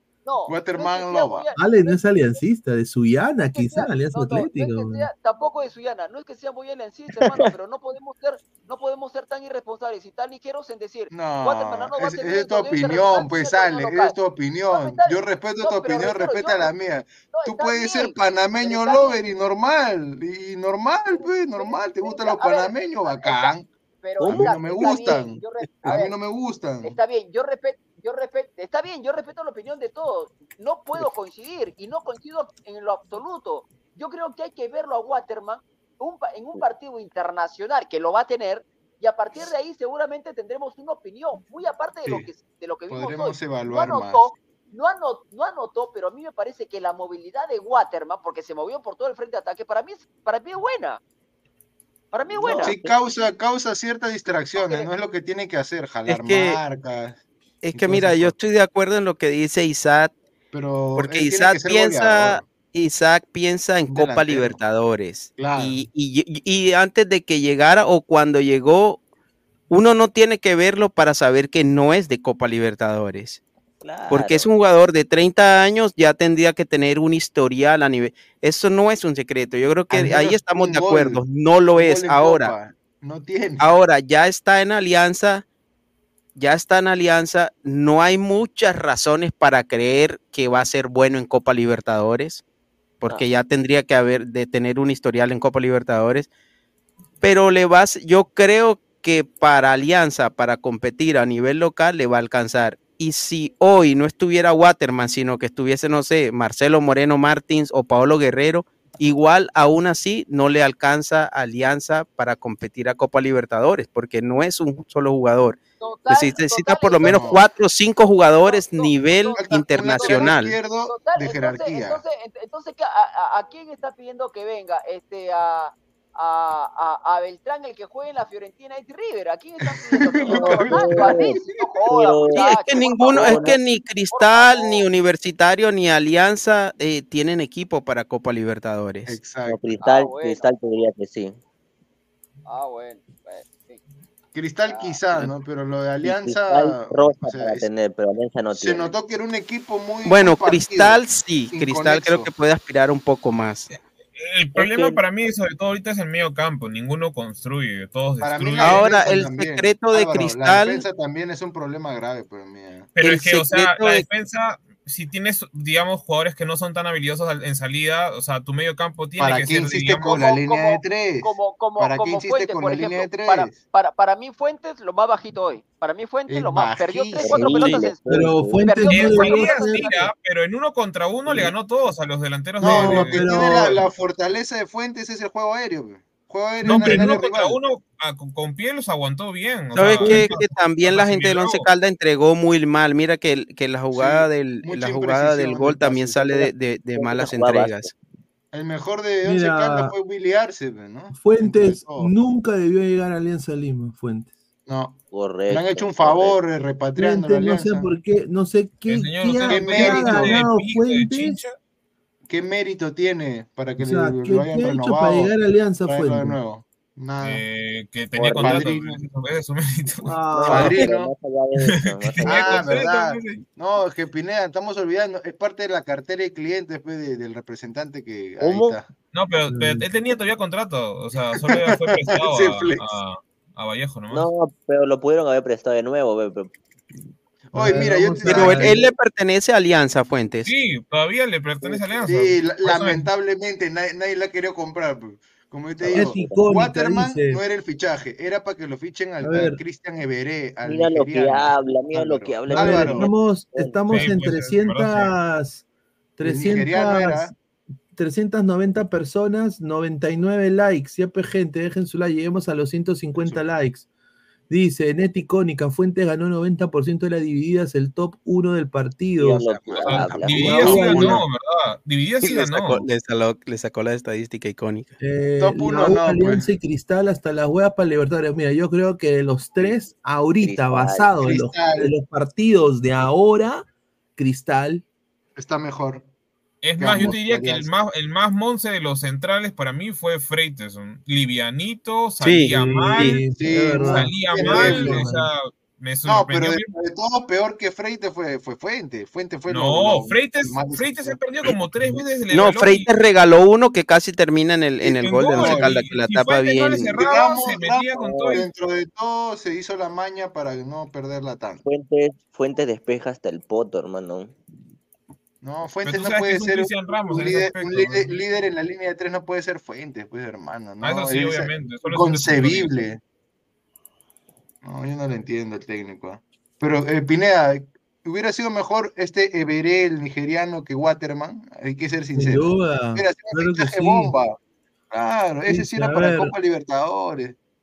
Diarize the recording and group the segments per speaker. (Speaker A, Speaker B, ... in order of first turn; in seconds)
Speaker A: 0.2-1.9, 3.5-14.2, 14.7-16.7, 17.3-19.2, 21.1-26.1, 26.8-51.0, 52.1-52.8, 54.5-54.9, 115.8-117.4, 118.4-120.3, 120.9-133.6, 134.1-134.8, 139.8-140.5, 142.5-143.8, 144.7-145.0, 170.0-178.0, 178.6-180.1
Speaker B: 0.5-1.5, 11.1-23.7, 24.3-27.0, 42.9-44.3, 52.5-58.4, 60.5-62.5, 63.9-64.6, 65.3-65.9, 79.9-83.7, 117.0-117.4, 119.4-122.0, 130.1-131.7, 139.1-139.8, 144.3-147.7, 148.5-152.3, 158.2-162.9, 169.2-173.6, 176.3-177.8, 182.6-187.6, 193.9-196.4, 198.5-202.1, 204.7-207.9, 209.5-210.4, 212.3-215.3, 215.9-217.4, 218.3-219.1, 220.5-221.1, 222.2-228.8, 231.5-233.0, 237.5-238.8, 242.1-253.1, 256.2-257.3, 269.6-271.1, 275.4-276.4, 281.2-281.9, 285.4-286.1, 286.8-287.7, 293.4-295.1, 296.1-301.5, 305.3-305.8, 306.7-311.6, 315.4-323.0, 324.6-334.4, 334.9-337.4
Speaker C: 1.6-5.1, 178.1-179.9, 182.6-183.8, 199.2-199.9, 201.1-204.3, 207.0-211.4, 213.8-216.4, 220.1-220.8, 229.5-229.9, 237.5-238.8, 245.9-247.4, 249.2-249.6, 252.5-255.7, 256.2-257.4, 257.9-263.9, 264.5-269.5, 270.2-271.2, 275.0-283.7, 284.2-284.8, 292.5-295.3, 332.1-334.1, 335.5-336.3
Speaker D: 7.2-7.5, 24.2-24.6, 52.3-53.0, 73.8-74.5, 130.3-133.6, 139.4-141.4, 146.0-148.9, 154.6-155.0, 177.2-178.6, 197.0-197.9, 205.1-206.4, 218.2-218.7, 220.3-222.7, 228.4-228.8, 234.1-236.5, 241.6-242.1, 245.8-246.4, 250.7-254.3, 269.2-271.1, 280.4-281.1, 308.0-308.5, 311.6-314.4
Speaker E: 56.1-56.6, 57.6-60.1, 61.0-69.0, 69.7-73.4, 74.1-82.5, 83.6-85.5, 86.4-92.4, 93.0-96.3, 97.2-115.6, 116.1-120.5, 132.4-139.2, 150.1-153.7, 158.6-160.8, 163.0-164.1, 189.7-197.9, 238.3-240.5, 270.8-271.1, 272.2-275.0, 292.2-293.2, 302.3-306.9
Speaker F: 154.2-159.0, 163.0-170.1, 178.9-183.8, 186.6-191.7, 208.9-211.6, 217.2-220.1, 221.7-223.4, 229.1-234.3, 240.4-243.1, 253.9-255.1, 269.8-272.8, 286.6-293.3, 293.8-296.7, 299.5-302.9, 304.8-308.5, 315.8-318.2, 320.8-322.7